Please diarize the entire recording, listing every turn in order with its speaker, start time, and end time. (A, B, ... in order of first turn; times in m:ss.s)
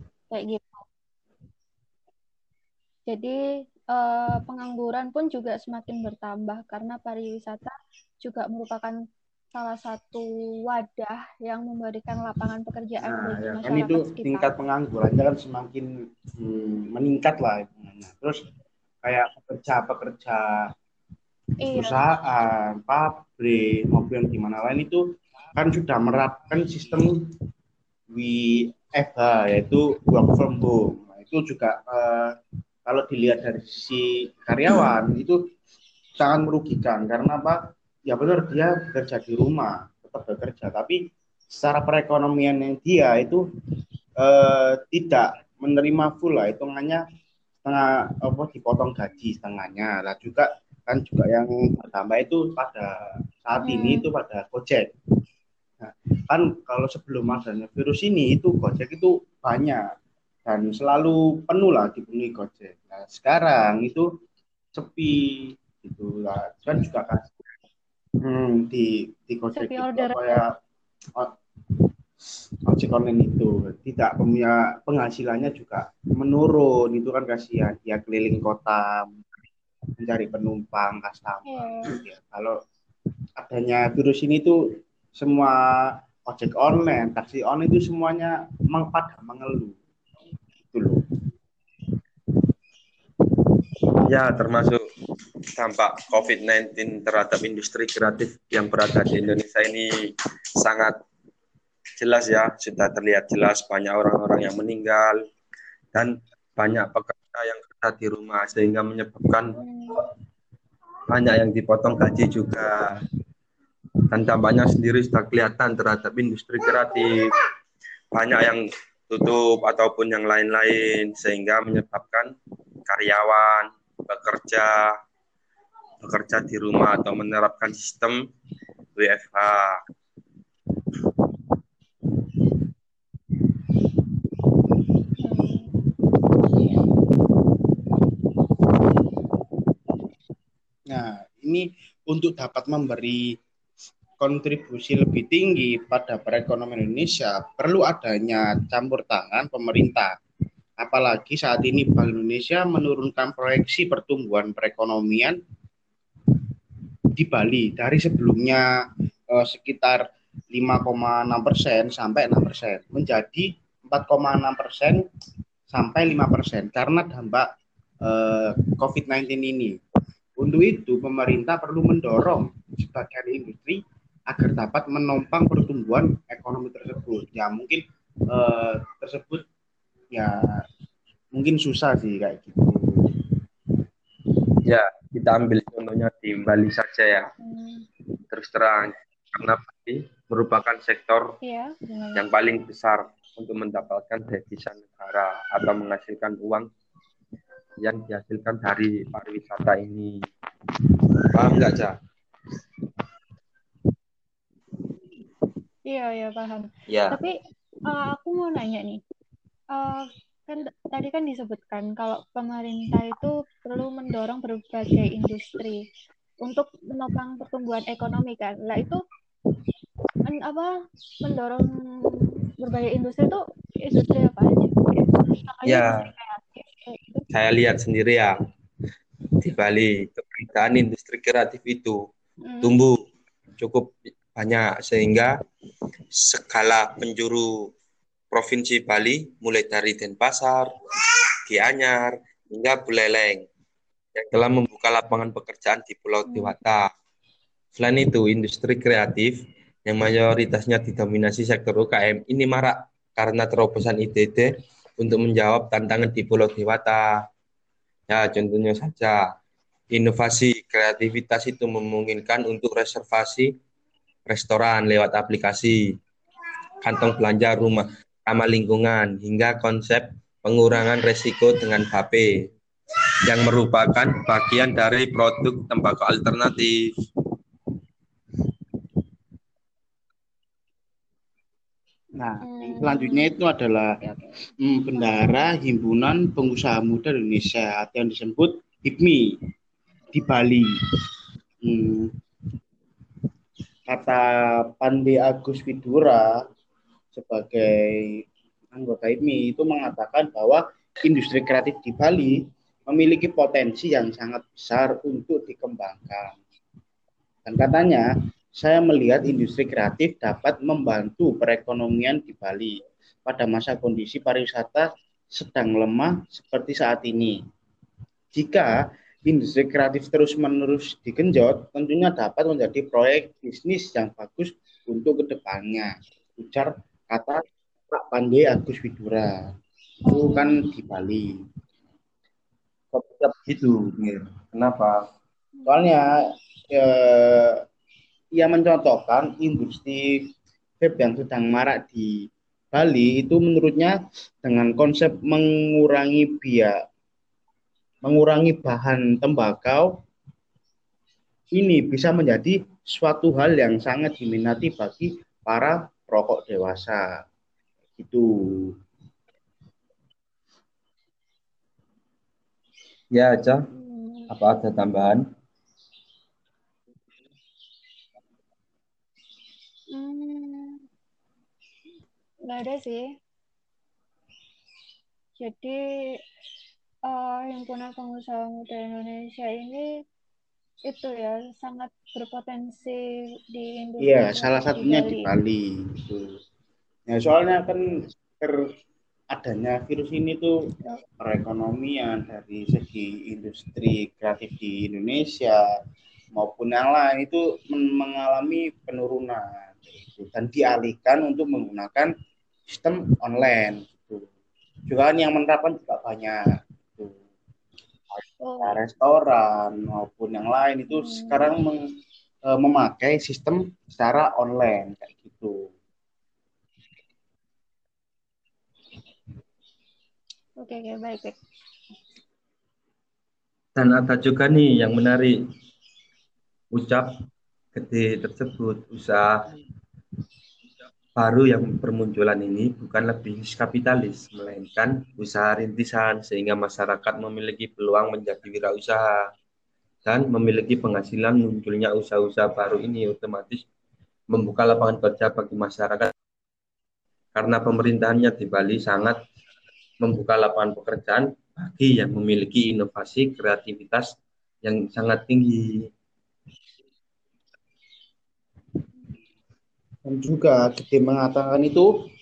0:00.3-0:00.8 A
0:03.1-0:03.4 A
0:03.9-0:09.0 A
0:09.5-0:14.5 A
0:13.0-0:18.4 B
0:19.0-0:20.7 B
0:21.6-0:22.0 A
0:21.7-0:27.2 B
0:28.1-0:35.4 B
0:36.2-0:41.0 B
0:41.5-0:43.4 B
0:44.2-0:47.0 B
0:47.6-0:54.9 B
0:53.6-0:54.1 A
0:55.8-0:59.8 B
1:00.5-1:04.1 B
1:04.7-1:05.2 B
1:05.8-1:07.4 B
1:08.2-1:10.5 B
1:09.6-1:10.4 A
1:12.7-1:19.1 B
1:20.0-1:22.6 B
1:21.5-1:22.0 A
1:23.4-1:24.6 B
1:25.2-1:29.8 B
1:30.7-1:31.0 B
1:34.0-1:34.8 C
1:35.6-1:39.9 C
1:40.6-1:41.0 C
1:42.0-1:45.2 C
1:45.9-1:49.6 C
1:49.6-1:50.0 A
1:51.1-1:52.9 C
1:54.1-1:57.2 C
1:58.1-2:02.3 C
2:02.9-2:04.9 C
2:06.0-2:08.2 C
2:09.0-2:09.8 C
2:15.2-2:15.7 A
2:20.9-2:23.2 B
2:24.2-2:30.1 B
2:30.8-2:35.4 B
2:37.2-2:38.6 B
2:39.3-2:45.0 B
2:45.7-2:47.5 B
2:48.0-2:49.8 B
2:50.4-2:59.4 B
3:00.1-3:00.4 B
3:01.3-3:03.3 B
3:04.7-3:07.3 C
3:07.4-3:07.9 A
3:08.3-3:11.4 C
3:11.4-3:12.2 A
3:12.2-3:16.7 C
3:17.8-3:20.3 C
3:21.3-3:22.0 C
3:25.9-3:27.3 A
3:26.9-3:27.2 C
3:27.9-3:29.0 A
3:29.7-3:35.8 A
3:36.4-3:39.0 A
3:40.2-3:40.7 A
3:41.2-3:47.2 A
3:45.6-3:46.0 C
3:47.3-3:48.3 C
3:49.4-3:52.0 C
3:52.4-3:52.8 A
3:52.6-3:53.0 C
3:53.6-3:55.3 C
3:56.2-3:57.7 C
3:58.3-4:00.7 C
4:01.5-4:03.4 C
4:04.2-4:06.9 C
4:06.3-4:06.5 A
4:07.7-4:17.1 C
4:18.1-4:19.2 C
4:19.9-4:23.5 C
4:24.3-4:25.8 C
4:26.8-4:32.3 C
4:33.3-4:36.8 C
4:42.2-4:44.0 B
4:42.4-4:43.4 A
4:44.0-4:44.4 A
4:44.6-4:49.2 B
4:44.9-4:45.5 A
4:50.1-4:50.7 B
4:51.6-4:52.1 B
4:53.9-4:56.3 B
4:57.1-4:58.2 B
4:58.7-5:06.4 B
5:07.4-5:17.4 B
5:18.3-5:18.7 B
5:19.2-5:29.5 B
5:30.1-5:30.6 A
5:30.1-5:31.3 B
5:32.9-5:35.0 C
5:35.6-5:35.8 A
5:35.7-5:36.1 B
5:36.7-5:37.6 B
5:38.4-5:40.2 B
5:40.8-5:46.7 B
5:48.0-5:49.9 B
5:51.5-5:57.0 B
5:58.0-5:58.8 B
6:03.1-6:03.6 C
6:03.7-6:04.3 A
6:04.3-6:05.2 C
6:09.9-6:10.8 A
6:12.5-6:13.1 A
6:15.4-6:16.2 A
6:17.1-6:19.9 A
6:20.9-6:25.3 A
6:24.0-6:26.4 B
6:27.1-6:28.6 B
6:29.3-6:30.5 B
6:31.2-6:35.6 B
6:36.4-6:42.1 B
6:42.7-6:44.3 B
6:44.9-6:46.4 B
6:48.1-6:51.8 B
6:48.4-6:48.8 A
6:50.9-6:51.4 A
6:52.5-6:55.7 B
7:00.6-7:01.4 A
7:03.8-7:05.4 C
7:06.7-7:07.1 C
7:07.7-7:09.4 C
7:11.2-7:19.2 C
7:20.0-7:23.6 C
7:24.3-7:26.1 C
7:27.3-7:29.2 C
7:30.0-7:34.1 C
7:34.6-7:35.8 C
7:40.0-7:41.9 B